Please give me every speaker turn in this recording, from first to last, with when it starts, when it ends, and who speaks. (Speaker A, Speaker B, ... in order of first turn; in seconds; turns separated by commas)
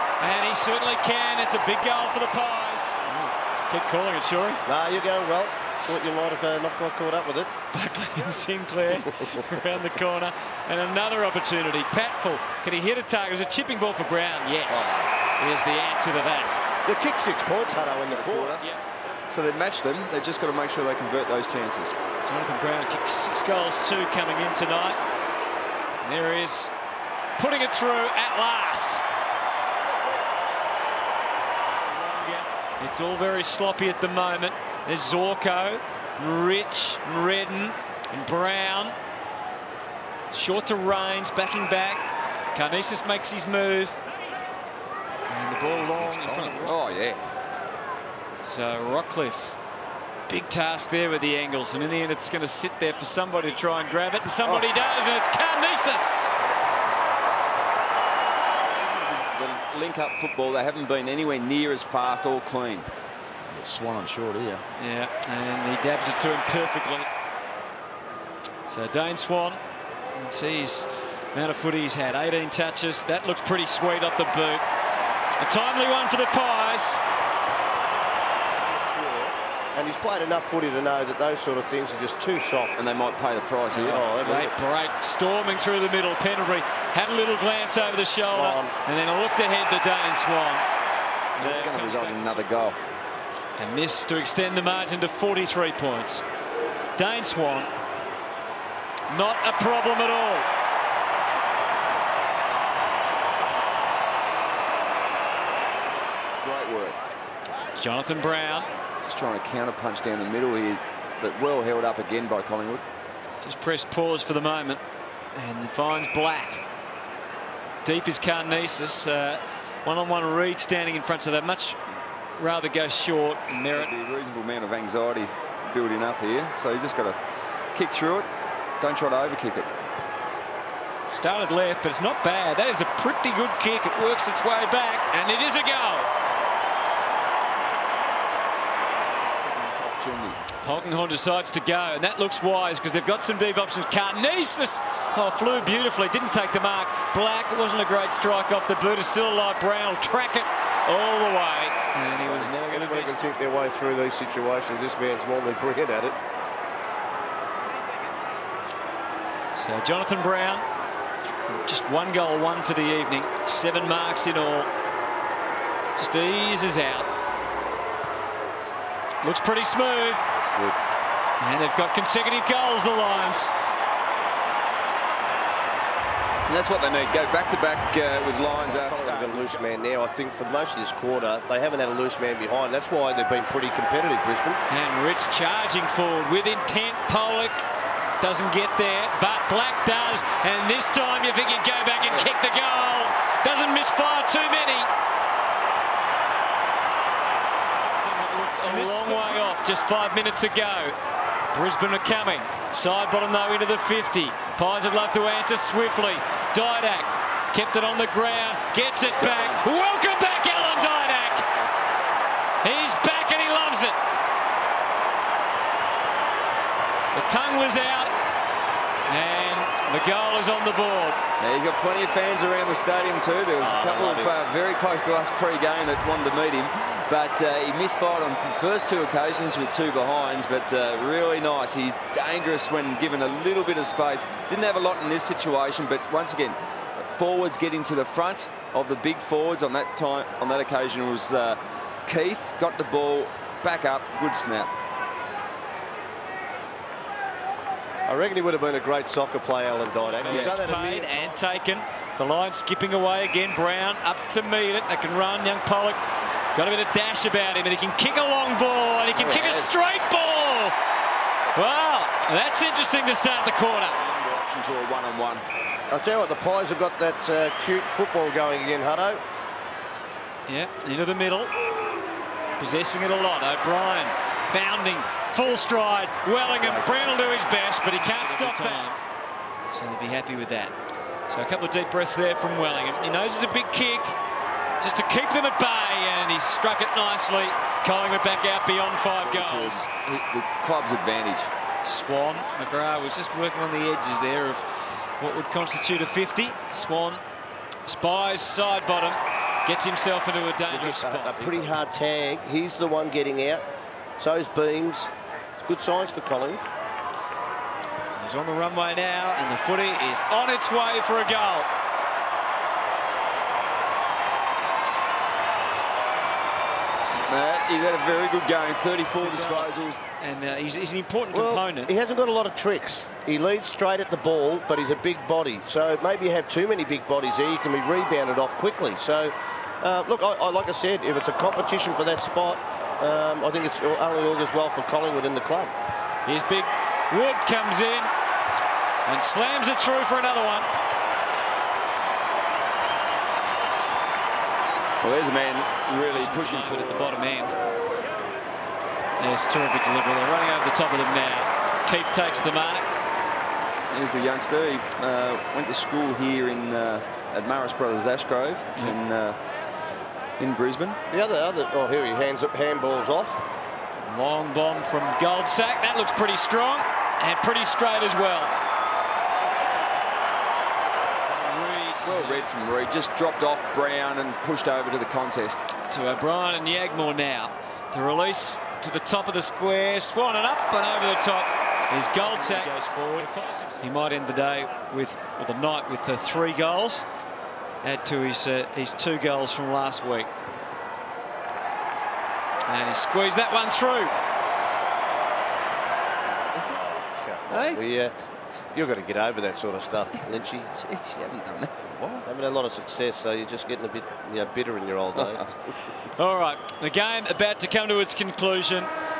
Speaker A: 0.2-4.6, Speaker B: 4.7-7.5, Speaker A: 7.7-16.6, Speaker B: 14.7-15.0, Speaker B: 16.9-18.6, Speaker C: 17.7-18.6, Speaker C: 19.3-21.9, Speaker A: 22.2-25.0, Speaker A: 26.0-26.7, Speaker A: 27.4-29.0, Speaker A: 31.9-38.9, Speaker A: 40.3-42.0, Speaker A: 42.5-44.0, Speaker A: 45.3-46.7, Speaker D: 45.6-46.8, Speaker C: 46.6-47.3, Speaker A: 48.4-49.6, Speaker A: 50.3-56.3, Speaker C: 58.7-62.9, Speaker D: 63.5-64.6, Speaker A: 64.8-67.1, Speaker A: 68.7-69.6, Speaker A: 70.1-74.6, Speaker A: 75.4-77.0, Speaker B: 78.6-82.9, Speaker C: 82.8-84.0, Speaker A: 83.7-90.6, Speaker B: 83.9-84.5, Speaker B: 88.0-88.7, Speaker C: 91.4-92.8, Speaker A: 91.4-92.4, Speaker A: 93.6-96.2, Speaker A: 97.0-97.7, Speaker A: 99.1-100.5, Speaker C: 106.4-107.0, Speaker A: 107.7-108.7, Speaker C: 109.0-112.8, Speaker A: 113.4-114.8, Speaker A: 115.3-116.6, Speaker A: 117.8-121.8, Speaker A: 122.3-123.9, Speaker C: 123.7-127.2, Speaker C: 127.7-128.3, Speaker C: 128.8-129.7, Speaker A: 131.1-136.1, Speaker C: 139.3-140.5, Speaker A: 140.6-152.5, Speaker C: 152.2-153.3, Speaker B: 152.7-156.2, Speaker A: 159.5-160.6, Speaker A: 161.3-164.7, Speaker A: 165.9-167.1, Speaker A: 169.2-170.2, Speaker B: 170.3-170.8, Speaker A: 171.4-173.5, Speaker C: 176.5-179.6, Speaker B: 178.6-184.6, Speaker A: 184.7-187.6, Speaker A: 188.2-194.9, Speaker A: 198.0-200.9, Speaker B: 198.7-199.2, Speaker A: 201.5-211.5, Speaker A: 212.6-213.9, Speaker A: 217.1-218.1, Speaker A: 219.1-221.2, Speaker C: 221.4-244.7, Speaker B: 223.6-224.3, Speaker B: 248.1-251.4, Speaker A: 250.2-256.0, Speaker C: 250.2-250.6, Speaker A: 256.5-260.7, Speaker B: 259.1-259.8, Speaker A: 261.5-264.0, Speaker C: 264.0-265.4, Speaker B: 265.9-269.2, Speaker A: 270.5-271.5, Speaker A: 272.6-278.9, Speaker B: 276.6-276.9, Speaker A: 279.7-280.7, Speaker A: 281.3-284.1, Speaker A: 284.8-289.9, Speaker C: 289.2-291.5, Speaker A: 291.8-294.7, Speaker A: 295.2-297.2, Speaker A: 297.8-301.8, Speaker B: 300.7-303.6, Speaker B: 304.2-306.6, Speaker A: 308.1-311.7, Speaker C: 317.1-320.0, Speaker A: 319.2-321.9, Speaker B: 321.3-335.7, Speaker A: 336.2-338.1, Speaker A: 339.1-340.7, Speaker C: 345.0-347.1, Speaker A: 346.0-347.5, Speaker A: 349.2-352.9, Speaker C: 353.9-359.4, Speaker C: 360.4-361.0, Speaker B: 361.1-363.4, Speaker A: 364.0-368.5, Speaker A: 371.3-372.5, Speaker C: 372.0-375.7, Speaker A: 375.9-387.0, Speaker A: 387.8-390.3, Speaker A: 392.7-394.1, Speaker C: 396.3-396.8, Speaker B: 396.7-398.1, Speaker C: 397.5-397.8, Speaker B: 398.7-400.7, Speaker C: 400.7-402.2, Speaker B: 402.2-405.5, Speaker C: 405.1-405.4, Speaker A: 406.2-408.9